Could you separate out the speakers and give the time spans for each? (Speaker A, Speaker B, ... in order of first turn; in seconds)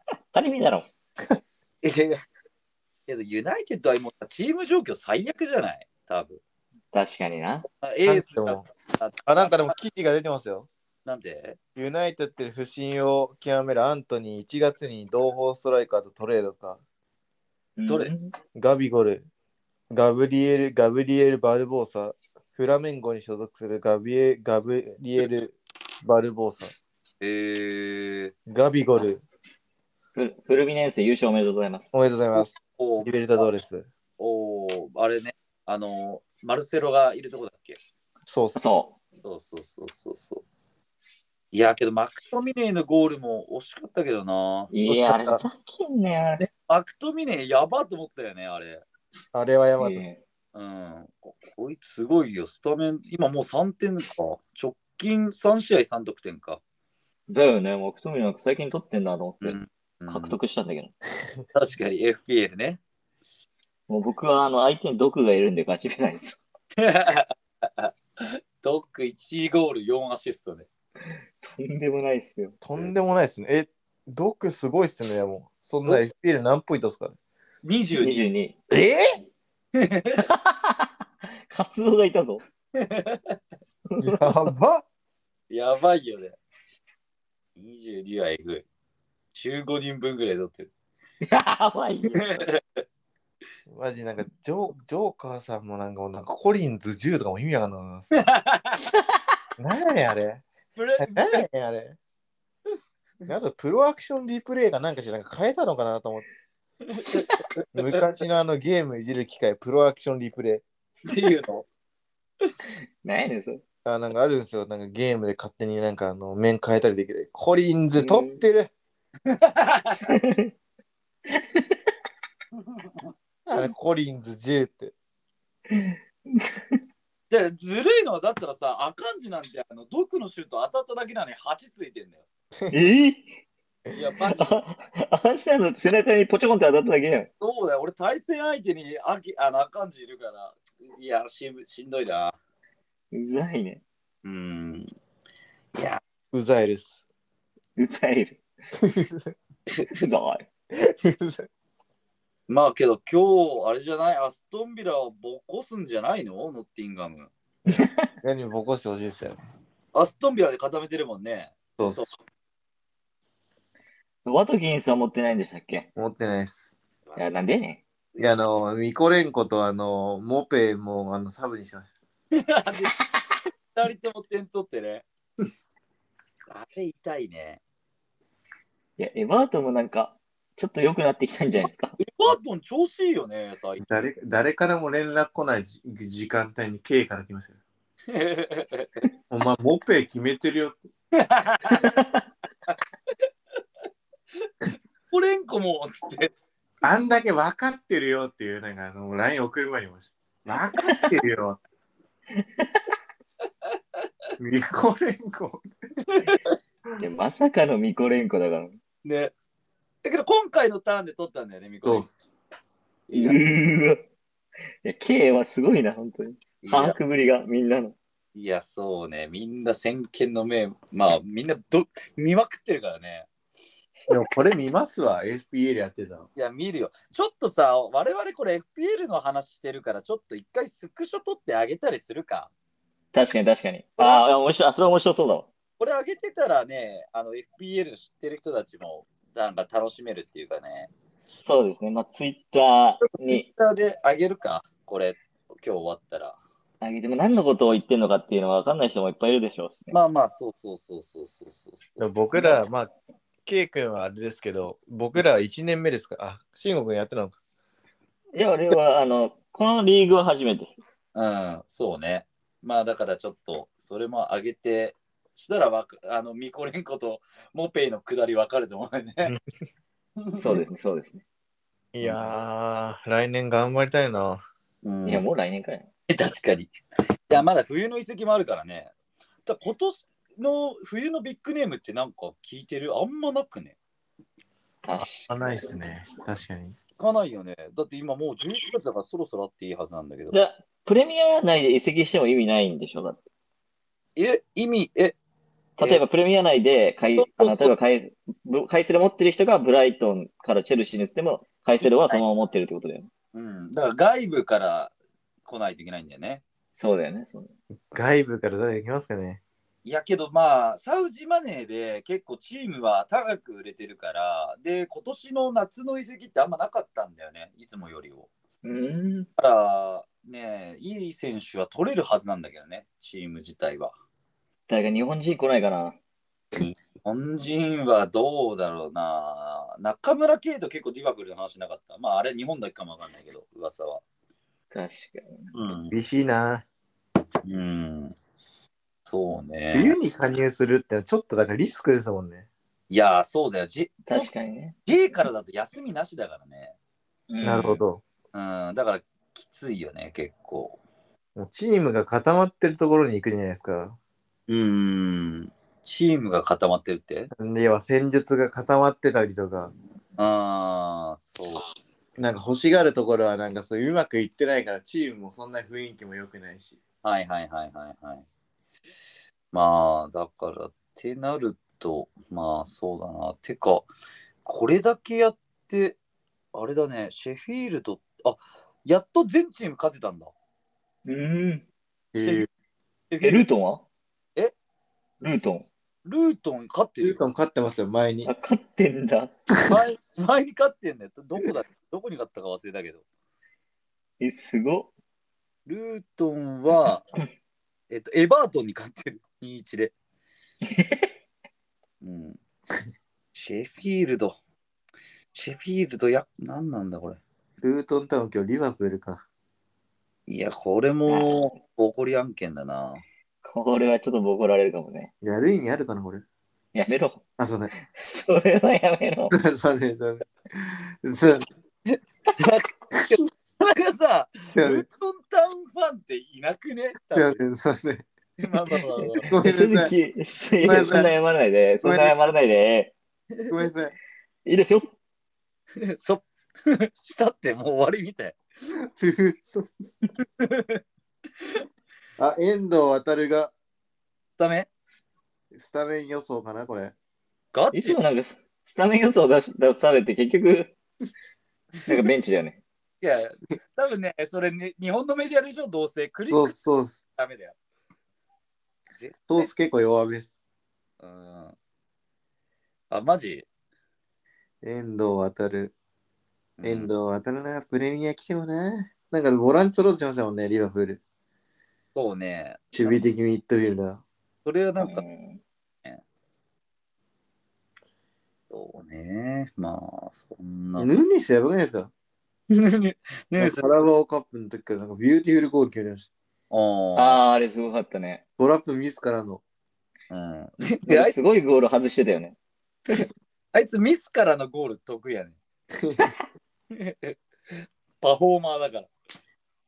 Speaker A: 0.3-0.9, 6.9-7.7, 17.8-18.3, 30.1-31.9, 38.5-39.0, 44.7-46.4, 49.8-50.2, 57.3-59.6, 60.1-60.9, 63.9-66.4, 71.4-72.6, 78.0-78.5, 80.1-80.9, 81.5-82.4, 83.9-84.3, 91.2-92.5, 113.0-113.6, 117.9-118.4, 120.0-120.5, 121.3-121.9, 125.7-126.8, 132.7-133.3, 134.3-137.3, 143.1-143.8, 147.8-148.4, 149.9-150.5, 157.7-158.1, 164.2-165.9, 167.2-167.8, 173.0-173.2, 179.0-182.0, 191.7-192.2, 200.8-201.1, 202.4-202.8, 207.0-208.8, 213.1-214.0, 214.8-217.9, 233.1-235.5, 241.4-243.5, 246.8-250.0, 252.3-252.6, 258.4-260.8, 270.4-271.2, 275.1-275.9, 284.8-285.8, 290.3-293.2, 295.8-303.1, 306.7-307.5, 318.6-319.3, 324.7-326.0, 334.7-335.5, 344.1-344.7, 347.3-347.8, 381.0-381.6, 383.2-383.8, 385.2-385.7, 388.2-389.3, 394.2-394.9, 400.7-401.1, 411.1-411.3, 413.4-415.1, 416.7-417.2, 417.8-419.3, 429.4-432.9, 434.4-434.9, 447.7-450.7, 451.9-452.6, 474.8-475.4, 486.9-488.2, 490.9-492.4
Speaker B: 1.8-2.2, 3.1-6.4, 7.8-9.7, 11.0-11.6, 27.2-28.3, 32.3-33.1, 34.2-37.8, 39.2-40.4, 41.5-45.4, 46.4-48.8, 50.5-56.6, 59.4-60.4, 61.5-62.8, 66.8-70.7, 77.6-78.3, 79.7-80.2, 82.7-83.4, 85.5-86.4, 87.5-88.6, 89.3-90.7, 92.2-92.8, 98.1-98.9, 100.8-101.4, 106.9-108.0, 111.0-111.6, 119.2-120.1, 122.5-123.1, 127.3-132.2, 133.9-134.6, 137.4-142.4, 144.2-144.9, 145.7-146.0, 152.5-157.3, 159.9-162.1, 172.3-172.9, 173.7-175.0, 176.5-177.6, 182.0-183.9, 188.1-189.0, 191.1-191.8, 195.1-196.3, 206.1-206.5, 209.0-209.3, 210.0-212.1, 213.1-213.4, 216.6-217.0, 218.3-223.3, 226.3-232.5, 234.0-234.2, 235.8-240.9, 243.1-246.4, 249.9-252.0, 261.1-269.3, 270.2-270.6, 272.0-272.3, 274.8-275.2, 276.1-276.7, 277.3-278.9, 279.4-283.7, 287.0-290.4, 294.1-295.1, 297.2-297.7, 301.8-302.2, 303.3-304.9, 305.4-306.4, 309.8-318.3, 319.4-323.9, 326.5-334.0, 335.5-335.9, 337.4-338.1, 339.1-339.9, 342.9-344.3, 344.9-346.7, 348.3-350.8, 354.5-357.3, 360.2-361.6, 367.0-368.2, 369.5-373.9, 374.4-376.0, 376.5-380.3, 383.1-383.5, 386.0-387.2, 389.6-393.0, 395.6-397.0, 397.9-399.9, 402.0-402.4, 403.3-404.4, 405.3-407.2, 410.3-413.0, 421.9-427.4, 428.4-429.3, 435.8-438.4, 440.2-440.8, 444.4-444.7, 447.5-448.0, 453.0-457.5, 459.0-459.5, 461.0-461.6, 462.9-463.5, 466.6-466.9, 471.9-473.0, 474.4-475.0, 478.5-480.9, 482.5-483.8, 486.5-487.2, 490.1-491.1, 492.9-495.4, 496.7-497.1, 498.0-498.9
Speaker C: 8.0-8.7, 9.2-10.7, 11.8-16.8, 18.5-19.2, 19.9-26.7, 28.5-29.2, 31.9-33.9, 38.2-38.6, 49.3-50.1, 72.6-77.2, 78.7-79.0, 84.0-84.8, 93.7-98.1, 99.6-100.4, 101.0-102.0, 103.3-106.3, 107.7-110.6, 113.8-118.7, 123.5-124.9, 146.3-147.0, 148.8-149.3, 150.7-151.5, 158.2-159.4, 161.8-162.1, 165.9-166.7, 168.2-171.9, 183.8-187.5, 189.3-190.8, 196.8-201.6, 204.4-205.6, 211.8-212.1, 224.1-226.2, 252.0-252.9, 253.4-257.4, 271.9-274.4, 285.0-286.7, 307.9-309.4, 335.9-336.6, 339.7-342.5, 347.4-348.0, 351.3-354.0, 357.3-359.7, 362.2-366.8, 382.1-382.5, 387.0-388.3, 389.5-389.8, 407.6-409.2, 415.2-416.2, 417.4-417.7, 419.3-421.4, 424.5-424.8, 427.1-428.1, 429.3-429.9, 430.6-431.2, 431.8-432.2, 433.5-433.9, 438.9-439.7, 442.2-443.5, 445.5-446.9, 456.3-457.0, 459.3-460.4, 464.6-465.7, 466.6-471.0, 472.7-474.0, 480.8-481.9, 483.4-486.1, 488.4-489.4, 495.8-496.1